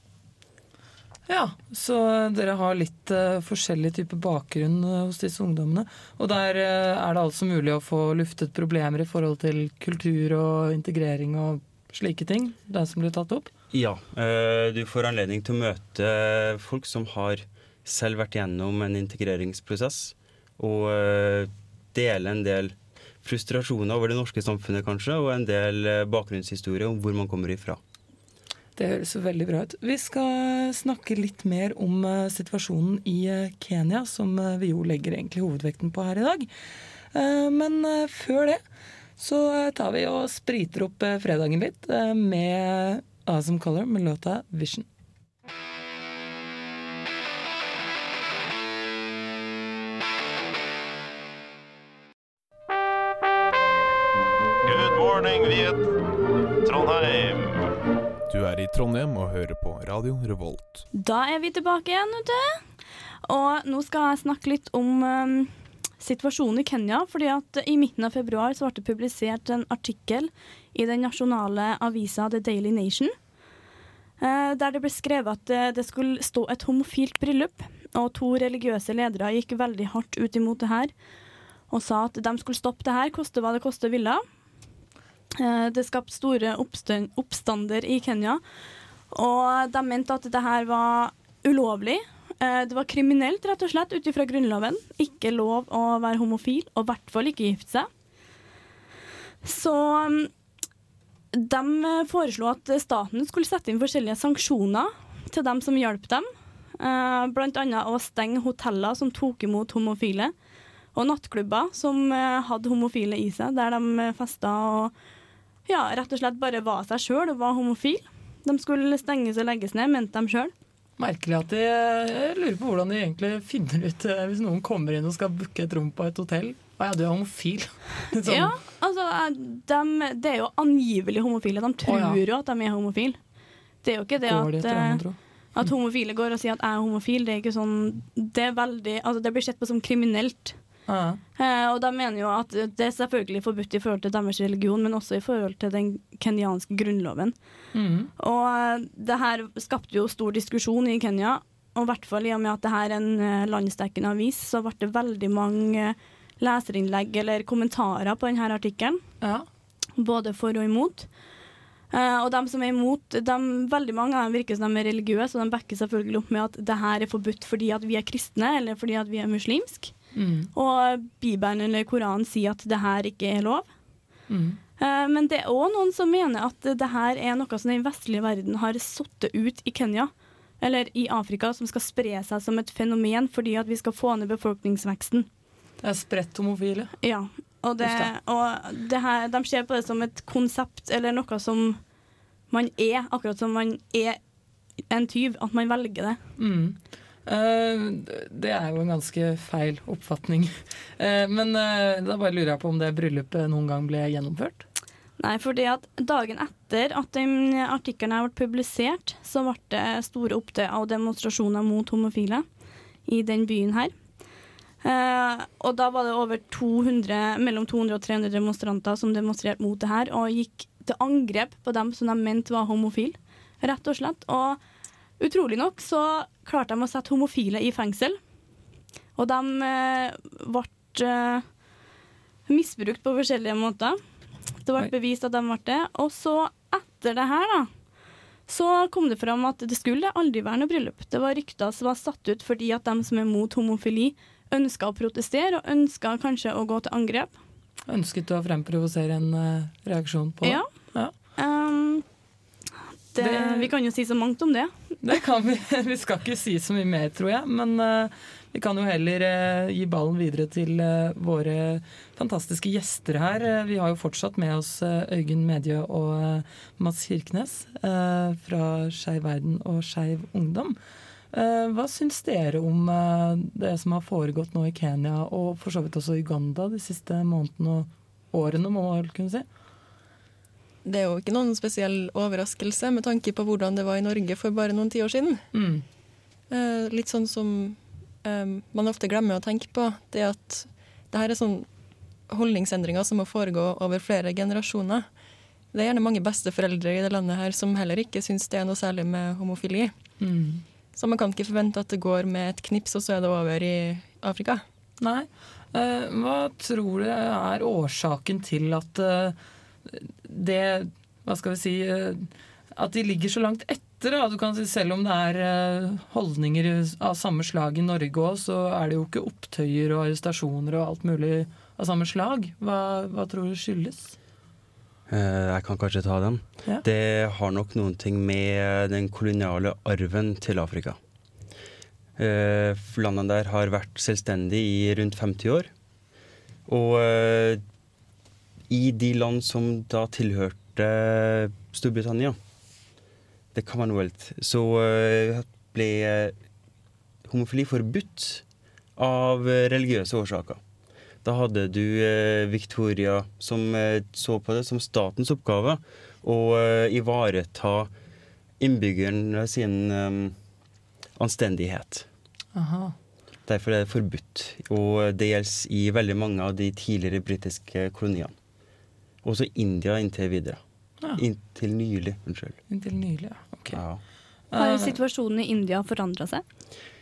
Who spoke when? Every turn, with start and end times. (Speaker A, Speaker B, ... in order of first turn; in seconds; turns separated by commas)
Speaker A: 1.3-13.5, Speaker B: 13.7-27.8, Speaker A: 28.8-36.5, Speaker A: 37.1-38.6, Speaker A: 39.2-44.9, Speaker C: 54.6-55.9, Speaker C: 56.6-57.5, Speaker D: 58.3-60.8, Speaker E: 60.9-62.6, Speaker E: 63.2-73.1, Speaker E: 74.2-80.9, Speaker E: 81.7-84.2, Speaker E: 85.3-88.4, Speaker E: 89.1-97.9, Speaker E: 99.4-100.3, Speaker E: 101.3-110.3, Speaker E: 110.9-114.9, Speaker E: 115.7-120.5, Speaker A: 121.0-128.5, Speaker E: 128.2-133.2, Speaker A: 131.9-132.2, Speaker E: 133.8-135.0, Speaker A: 134.2-135.7, Speaker E: 135.5-140.6, Speaker A: 140.9-141.2, Speaker E: 141.4-147.3, Speaker A: 147.7-148.1, Speaker E: 148.2-159.0, Speaker A: 159.2-159.5, Speaker E: 160.0-161.1, Speaker E: 161.9-169.9, Speaker A: 170.1-170.5, Speaker E: 170.5-173.7, Speaker A: 174.3-174.6, Speaker E: 174.8-185.3, Speaker A: 185.8-186.9, Speaker E: 187.0-191.8, Speaker A: 187.8-188.1, Speaker E: 192.5-194.2, Speaker E: 194.9-196.2, Speaker A: 196.4-204.6, Speaker E: 205.2-212.4, Speaker E: 213.1-213.9, Speaker E: 214.8-224.6, Speaker E: 225.2-228.2, Speaker E: 229.2-231.4, Speaker E: 232.5-234.0, Speaker E: 234.6-237.7, Speaker E: 238.5-247.4, Speaker A: 247.9-251.1, Speaker E: 251.4-252.0, Speaker E: 253.1-254.7, Speaker A: 253.2-253.7, Speaker A: 255.0-270.8, Speaker A: 271.3-279.4, Speaker F: 280.8-285.4, Speaker A: 285.5-285.8, Speaker F: 286.5-291.7, Speaker F: 292.3-295.1, Speaker F: 295.7-299.9, Speaker A: 300.2-300.6, Speaker F: 300.9-304.6, Speaker A: 305.0-309.4, Speaker A: 309.9-324.1, Speaker B: 325.1-331.0, Speaker B: 332.2-335.7, Speaker B: 336.7-337.6, Speaker B: 338.7-342.4, Speaker B: 343.5-346.3, Speaker B: 347.3-348.4, Speaker B: 349.0-350.6, Speaker B: 351.2-357.9, Speaker B: 358.6-360.4, Speaker B: 361.2-362.1, Speaker A: 362.5-362.9, Speaker B: 363.5-368.3, Speaker B: 369.2-370.6, Speaker B: 371.1-372.6, Speaker A: 372.7-373.8, Speaker B: 373.7-374.0, Speaker A: 374.5-375.0, Speaker E: 374.6-376.4